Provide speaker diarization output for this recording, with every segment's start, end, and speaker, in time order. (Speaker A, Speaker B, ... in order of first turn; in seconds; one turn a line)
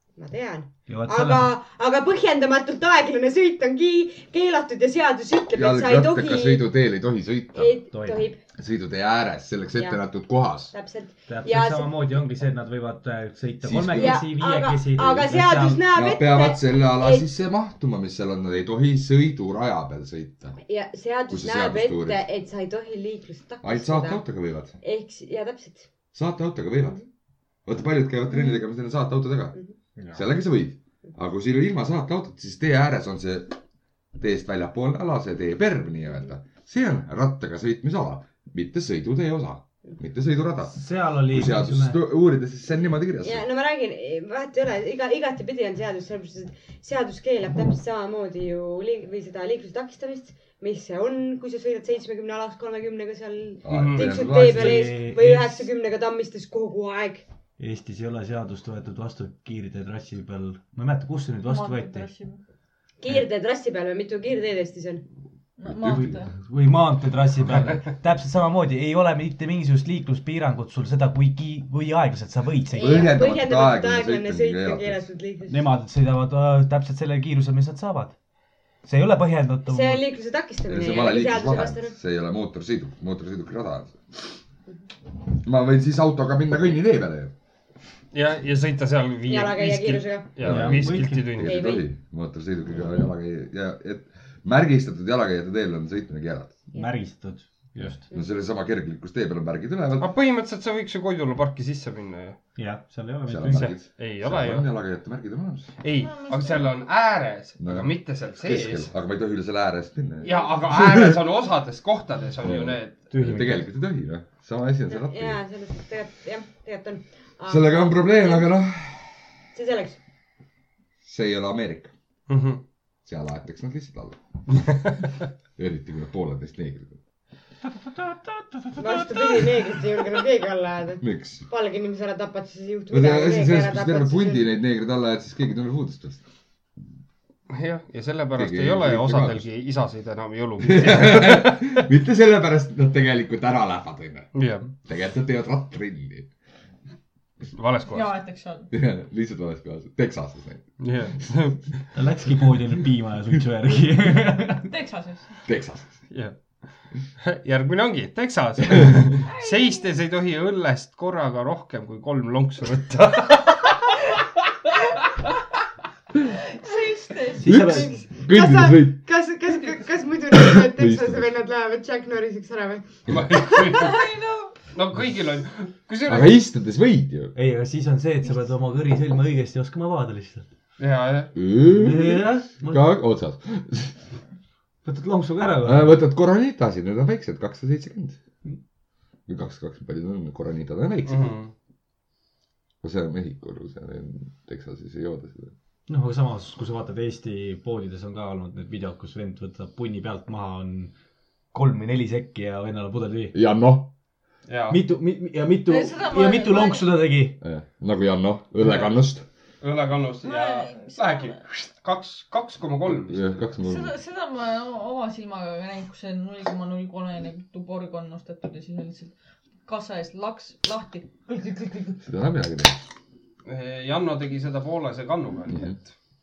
Speaker A: 0.2-6.7
Speaker B: 0.9-1.5
Speaker C: 5.5-7.7
Speaker A: 7.5-8.4
Speaker B: 7.9-8.2
Speaker C: 8.5-10.7
Speaker A: 9.7-10.0
Speaker A: 10.7-11.9
Speaker B: 11.3-15.8
Speaker C: 13.6-14.2
Speaker A: 13.9-17.3
Speaker C: 15.9-20.6
Speaker A: 20.6-24.2
Speaker C: 21.3-22.2
Speaker C: 23.6-24.7
Speaker A: 24.8-25.9
Speaker C: 26.1-27.0
Speaker C: 27.6-29.6
Speaker A: 28.3-28.6
Speaker C: 30.1-33.5
Speaker C: 34.2-43.4
Speaker B: 40.7-42.0
Speaker A: 43.2-57.2
Speaker C: 53.6-54.9
Speaker D: 53.7-54.2
Speaker B: 54.2-55.6
Speaker B: 57.6-62.1
Speaker E: 61.4-62.4
Speaker A: 63.0-65.0
Speaker E: 65.6-66.3
Speaker C: 65.6-66.2
Speaker B: 65.9-73.1
Speaker A: 72.8-75.7
Speaker C: 72.8-75.0
Speaker B: 75.5-78.1
Speaker B: 78.8-80.0
Speaker A: 79.7-81.9
Speaker C: 80.7-84.4
Speaker C: 85.4-87.3
Speaker D: 88.1-91.6
Speaker A: 89.3-90.3
Speaker C: 90.4-96.6
Speaker B: 90.4-91.3
Speaker A: 91.4-91.8
Speaker B: 96.7-98.0
Speaker C: 97.8-100.1
Speaker D: 100.0-102.4
Speaker B: 102.5-103.7
Speaker C: 103.3-105.7
Speaker D: 103.5-104.7
Speaker D: 105.8-108.9
Speaker E: 106.0-106.7
Speaker C: 107.6-111.2
Speaker D: 110.2-113.0
Speaker C: 112.4-115.4
Speaker B: 113.1-113.7
Speaker A: 114.9-118.5
Speaker C: 117.5-119.1
Speaker A: 119.5-120.0
Speaker C: 121.0-121.9
Speaker D: 122.3-122.6
Speaker C: 123.0-124.2
Speaker C: 125.6-127.0
Speaker A: 128.8-134.5
Speaker C: 131.0-131.4
Speaker C: 132.9-136.2
Speaker D: 137.5-141.8
Speaker C: 138.3-139.5
Speaker C: 140.6-144.3
Speaker D: 144.3-144.7
Speaker C: 144.8-146.3
Speaker D: 147.5-148.1
Speaker E: 147.9-148.7
Speaker C: 148.7-150.8
Speaker D: 150.8-151.8
Speaker B: 151.9-154.7
Speaker E: 154.6-155.4
Speaker C: 155.4-156.0
Speaker D: 156.1-156.4
Speaker D: 157.2-164.1
Speaker E: 159.2-159.9
Speaker E: 166.5-167.5
Speaker B: 167.4-167.9
Speaker C: 167.4-169.0
Speaker A: 167.5-173.5
Speaker C: 170.3-171.3
Speaker D: 173.1-174.1
Speaker E: 173.6-174.6
Speaker D: 174.6-176.3
Speaker C: 176.1-177.3
Speaker B: 177.3-180.4
Speaker D: 180.8-181.3
Speaker C: 181.3-184.0
Speaker B: 181.7-182.8
Speaker B: 184.8-185.9
Speaker C: 185.6-188.2
Speaker C: 189.3-191.3
Speaker D: 191.1-191.5
Speaker C: 192.8-195.5
Speaker B: 195.9-200.9
Speaker B: 201.5-203.3
Speaker C: 203.3-203.9
Speaker D: 204.5-204.8
Speaker B: 204.7-207.4
Speaker E: 205.7-206.9
Speaker C: 207.4-209.2
Speaker D: 209.6-213.2
Speaker E: 210.2-211.4
Speaker C: 212.9-213.9
Speaker E: 213.6-219.1
Speaker E: 219.7-221.9
Speaker C: 222.0-222.8
Speaker D: 223.4-225.8
Speaker C: 225.5-225.8